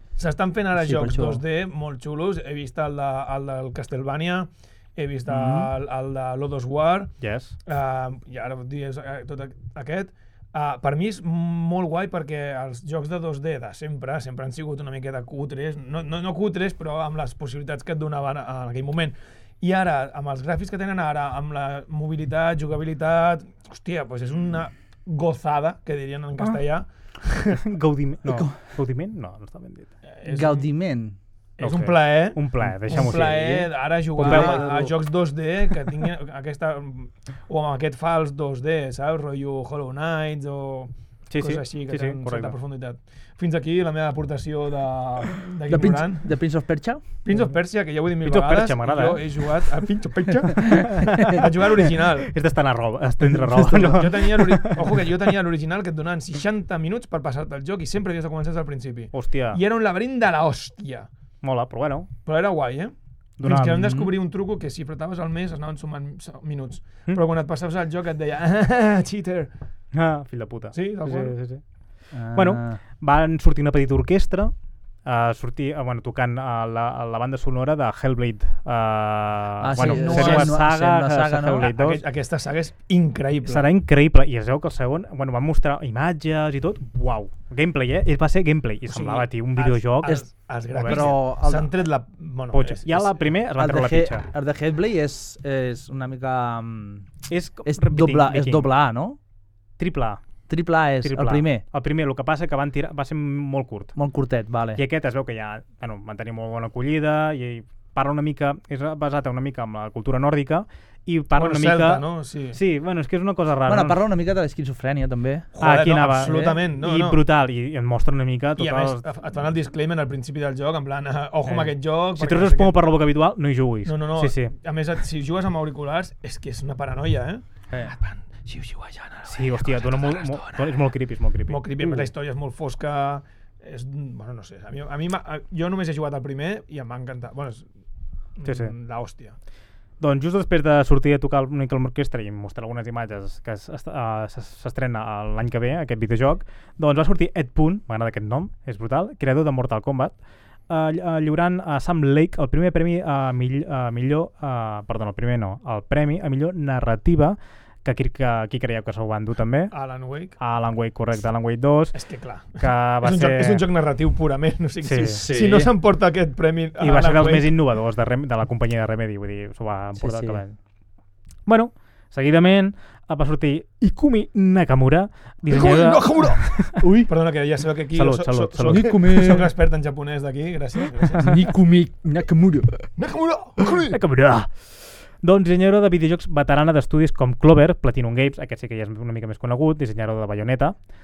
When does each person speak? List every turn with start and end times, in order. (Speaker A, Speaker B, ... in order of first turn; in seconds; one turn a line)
Speaker A: 0.2-7.1
Speaker B: 0.8-1.4
Speaker B: 5.3-5.7
Speaker C: 7.2-7.5
Speaker A: 7.7-27.6
Speaker C: 27.6-29.9
Speaker B: 28.3-28.6
Speaker A: 30.1-30.6
Speaker B: 30.2-31.2
Speaker A: 31.6-46.3
Speaker C: 31.6-34.7
Speaker B: 34.1-34.9
Speaker C: 41.3-42.6
Speaker B: 45.7-47.0
Speaker A: 47.2-52.3
Speaker C: 48.2-49.3
Speaker C: 50.7-51.4
Speaker C: 52.3-55.1
Speaker A: 53.6-61.1
Speaker C: 59.1-59.6
Speaker C: 61.4-62.1
Speaker A: 62.2-69.5
Speaker C: 63.4-64.0
Speaker B: 63.8-64.1
Speaker C: 69.9-82.0
Speaker A: 70.7-71.3
Speaker B: 72.1-72.8
Speaker B: 79.6-81.7
Speaker A: 79.8-80.6
Speaker A: 81.7-83.7
Speaker C: 83.5-91.1
Speaker A: 88.9-93.2
Speaker B: 90.8-91.7
Speaker C: 92.5-94.2
Speaker B: 93.5-97.1
Speaker C: 97.3-98.7
Speaker B: 97.7-99.2
Speaker C: 99.8-100.2
Speaker B: 100.5-101.6
Speaker C: 101.0-103.9
Speaker B: 104.0-104.8
Speaker C: 104.8-114.0
Speaker A: 111.3-112.6
Speaker B: 113.7-115.5
Speaker A: 115.5-117.2
Speaker C: 115.6-119.0
Speaker A: 118.6-122.7
Speaker C: 121.4-124.5
Speaker A: 123.8-130.8
Speaker C: 129.2-132.1
Speaker A: 131.5-137.7
Speaker A: 138.3-139.3
Speaker C: 138.4-138.7
Speaker C: 140.0-150.1
Speaker C: 150.7-163.6
Speaker A: 159.7-160.3
Speaker A: 161.9-167.5
Speaker C: 164.8-165.2
Speaker B: 165.1-165.7
Speaker C: 166.8-170.6
Speaker B: 170.0-170.4
Speaker C: 171.4-176.8
Speaker A: 175.5-181.3
Speaker B: 176.8-177.1
Speaker C: 177.9-179.1
Speaker B: 178.6-179.5
Speaker B: 181.2-182.9
Speaker A: 183.0-183.9
Speaker C: 183.9-190.8